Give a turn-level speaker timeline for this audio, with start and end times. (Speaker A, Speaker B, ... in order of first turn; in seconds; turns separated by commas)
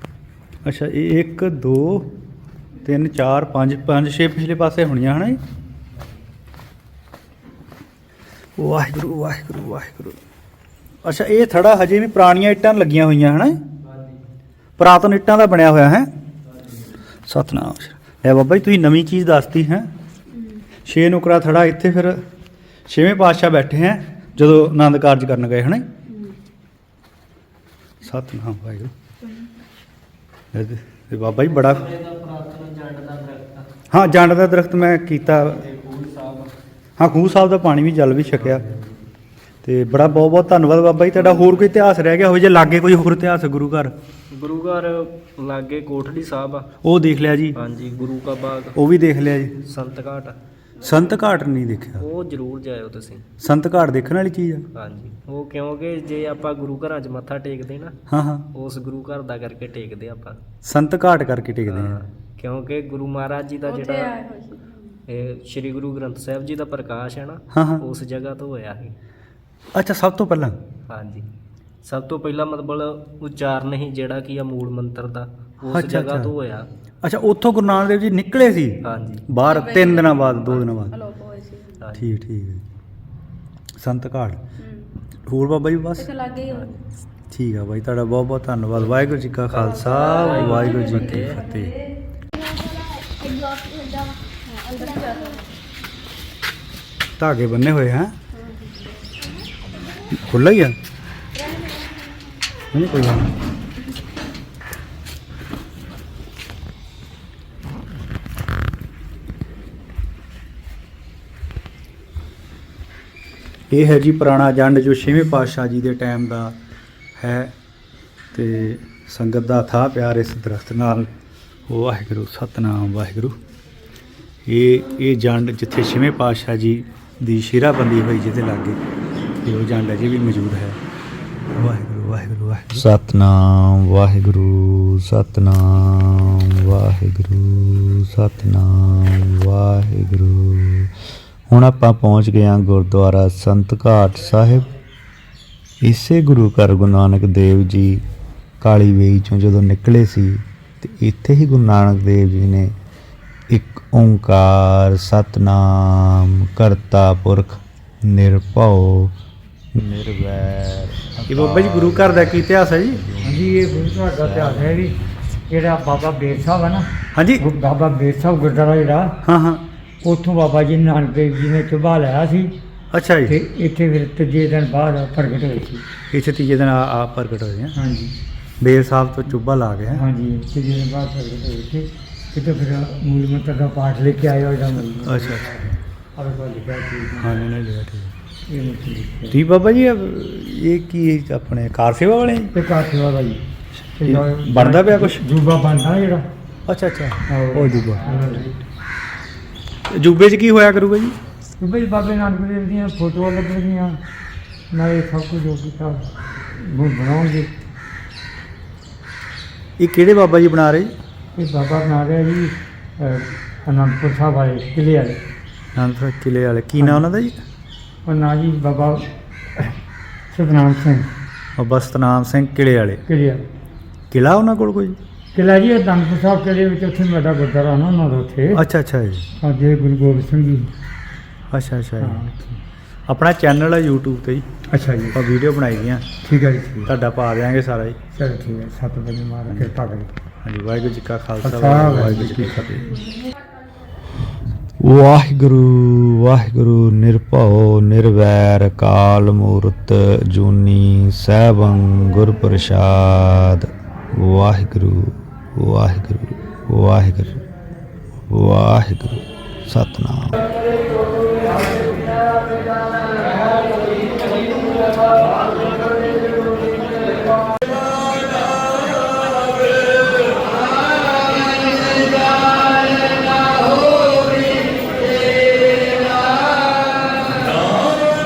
Speaker A: 0.7-2.1, Speaker A: 2.8-5.4, Speaker A: 8.6-10.2, Speaker A: 11.0-13.6, Speaker B: 13.9-14.2, Speaker A: 14.8-16.1, Speaker B: 16.6-16.9, Speaker A: 17.3-19.9, Speaker A: 20.9-22.2, Speaker A: 22.9-25.9, Speaker A: 28.0-28.9, Speaker A: 30.5-31.9, Speaker B: 31.3-33.7, Speaker A: 33.9-35.6, Speaker B: 35.3-36.5, Speaker A: 37.0-38.6, Speaker B: 38.3-38.9, Speaker A: 39.6-43.9, Speaker B: 41.1-41.7, Speaker B: 44.3-46.7, Speaker A: 46.8-47.6, Speaker B: 47.5-48.8, Speaker A: 48.8-49.5, Speaker B: 49.6-50.4, Speaker A: 50.8-52.1, Speaker B: 52.0-53.2, Speaker A: 53.4-54.7, Speaker B: 54.8-58.0, Speaker A: 58.1-58.5, Speaker B: 58.5-60.4, Speaker A: 60.6-62.0, Speaker B: 61.7-64.2, Speaker C: 63.7-64.7, Speaker B: 65.1-69.0, Speaker A: 67.5-67.8, Speaker A: 69.7-70.6, Speaker B: 70.9-71.3, Speaker B: 71.8-76.7, Speaker A: 75.7-76.3, Speaker A: 77.0-81.0, Speaker B: 78.8-79.3, Speaker C: 79.5-80.3, Speaker B: 80.2-80.8, Speaker C: 80.9-81.8, Speaker B: 81.8-82.1, Speaker A: 81.9-82.7, Speaker A: 83.8-84.4, Speaker A: 85.3-86.1, Speaker C: 86.0-86.7, Speaker B: 86.5-86.8, Speaker A: 87.3-91.7, Speaker B: 88.8-91.4, Speaker C: 89.8-91.2, Speaker C: 92.6-95.4, Speaker A: 97.2-98.1, Speaker A: 100.2-100.8, Speaker A: 102.7-103.3, Speaker A: 113.7-116.6, Speaker A: 117.2-117.5, Speaker A: 118.3-121.1, Speaker A: 121.7-123.4, Speaker A: 124.5-128.8, Speaker A: 129.4-130.8, Speaker A: 131.6-132.9, Speaker D: 132.7-140.9, Speaker D: 141.5-144.7, Speaker D: 145.8-148.0, Speaker D: 148.6-152.7, Speaker D: 153.5-159.2, Speaker D: 159.8-165.1, Speaker A: 161.3-163.0, Speaker E: 163.2-165.0, Speaker E: 165.5-169.2, Speaker A: 167.2-167.5, Speaker A: 169.2-169.7, Speaker E: 170.0-172.5, Speaker A: 172.9-173.4, Speaker E: 173.3-175.8, Speaker A: 176.1-177.8, Speaker E: 177.7-178.1, Speaker A: 178.6-180.0, Speaker E: 179.9-187.4, Speaker A: 185.0-185.5, Speaker A: 187.2-188.2, Speaker E: 188.5-189.4, Speaker A: 189.3-192.5, Speaker E: 192.5-193.4, Speaker E: 194.0-196.3, Speaker A: 194.0-195.2, Speaker A: 196.7-198.1, Speaker E: 197.3-198.5, Speaker A: 199.9-201.2, Speaker E: 201.6-204.0, Speaker E: 204.7-207.5, Speaker A: 209.8-210.9, Speaker E: 211.3-215.2, Speaker A: 215.8-217.4, Speaker E: 216.8-217.0, Speaker E: 218.1-219.8, Speaker E: 220.3-221.1, Speaker A: 221.6-223.0, Speaker E: 223.1-223.4, Speaker A: 224.1-225.0, Speaker E: 225.3-228.6, Speaker A: 228.5-229.3, Speaker E: 229.4-230.7, Speaker A: 231.5-232.2, Speaker E: 232.0-232.6, Speaker A: 233.1-234.5, Speaker E: 234.7-235.2, Speaker A: 235.1-236.1, Speaker E: 236.2-236.9, Speaker A: 236.8-238.0, Speaker E: 238.1-240.1, Speaker A: 239.5-239.8, Speaker A: 240.4-243.0, Speaker E: 241.4-242.8, Speaker D: 244.8-257.4, Speaker D: 258.3-260.4